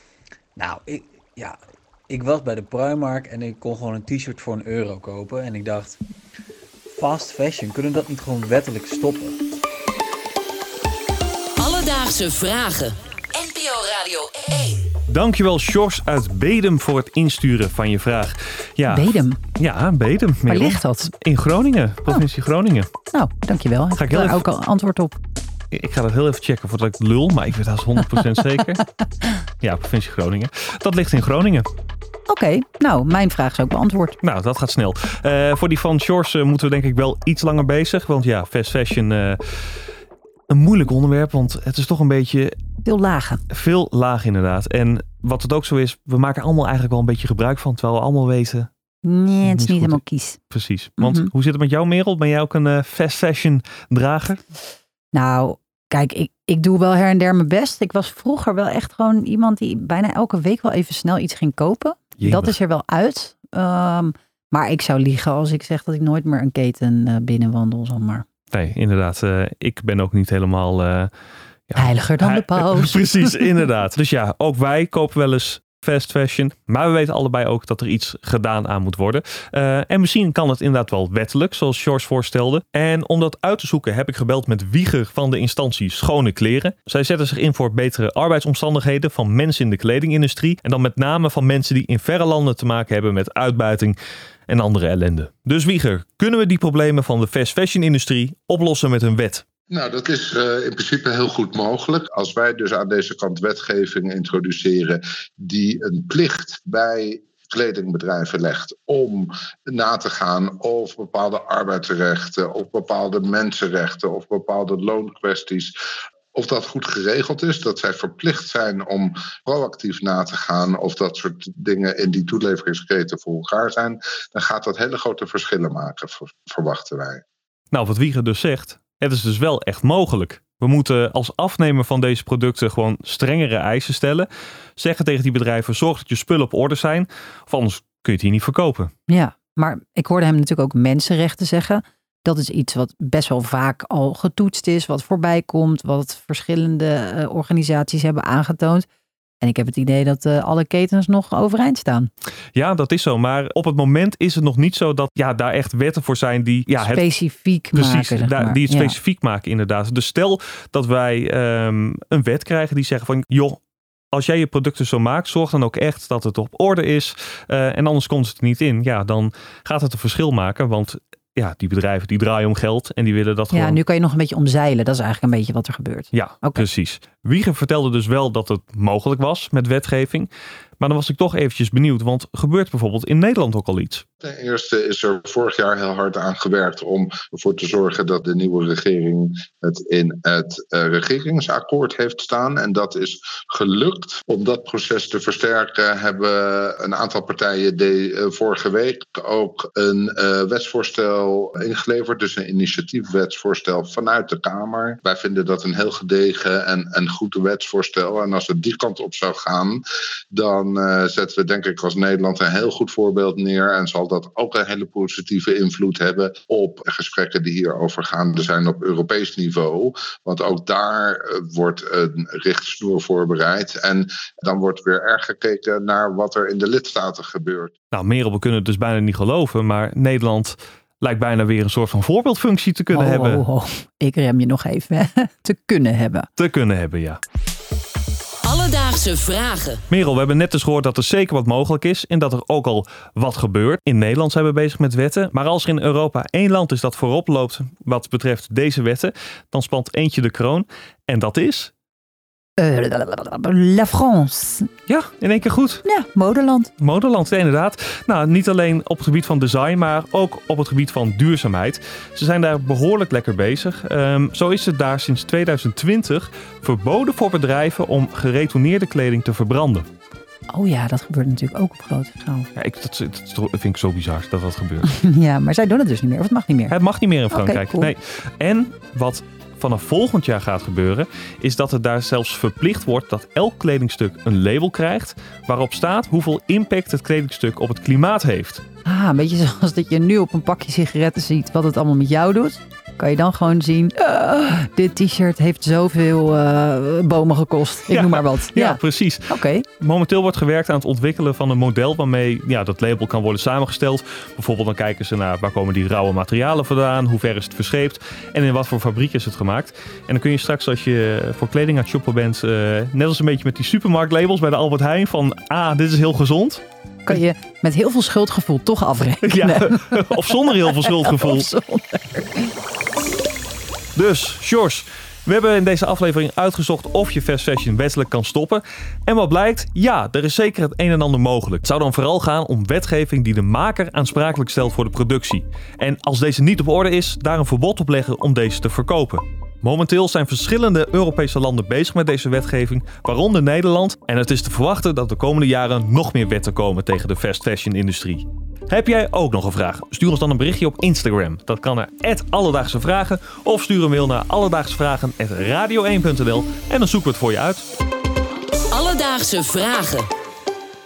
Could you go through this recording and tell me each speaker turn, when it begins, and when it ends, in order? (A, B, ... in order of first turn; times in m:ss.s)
0:00.6-0:01.6 A
0:02.1-0:06.0 A
0:06.9-0:09.4 A
0:11.6-0:14.9 B
0:15.1-0:22.9 C
0:18.9-0:19.4 D
0:20.5-0:21.1 D
0:23.1-0:25.1 D
0:24.0-0:24.4 C
0:25.7-0:28.8 C
0:29.6-0:31.7 C
0:32.3-0:34.2 D
0:34.2-0:39.4 C
0:40.5-0:42.5 C
0:42.8-0:43.4 D
0:43.5-0:48.7 C
0:49.0-0:50.4 D
0:49.4-0:50.0 C
0:50.5-0:54.4 C
0:51.0-0:51.3 D
0:55.1-1:08.2 D
1:02.2-1:02.6 C
1:08.5-1:11.1 C
1:11.7-1:34.0 C
1:11.8-1:13.3 D
1:34.5-1:39.4 C
1:39.7-1:55.7 E
1:56.3-2:07.2 E
2:07.7-2:18.9 C
2:19.1-2:28.9 D
2:29.4-2:32.1 D
2:32.5-2:37.0 C
2:36.8-2:39.0 D
2:37.7-2:43.6 C
2:44.1-2:53.8 C
2:53.5-2:56.6 D
2:56.1-3:04.0 C
3:04.2-3:47.7 E
3:47.9-3:53.4 C
3:52.9-3:56.3 D
3:56.4-3:57.2 C
3:58.4-3:59.8 B
3:59.9-4:11.7 C
4:12.6-4:14.7 D
4:14.9-4:15.8 C
4:15.8-4:16.7 D
4:16.8-4:29.9 C
4:30.5-4:32.5 D
4:32.6-4:34.9 C
4:34.8-4:36.8 D
4:36.7-4:48.6 C
4:37.3-4:37.9 D
4:48.8-4:59.6 D
4:57.9-5:17.2 C
5:17.0-5:22.5 D
5:19.3-5:21.5 C
5:23.9-5:57.6 C
5:58.7-6:00.1 B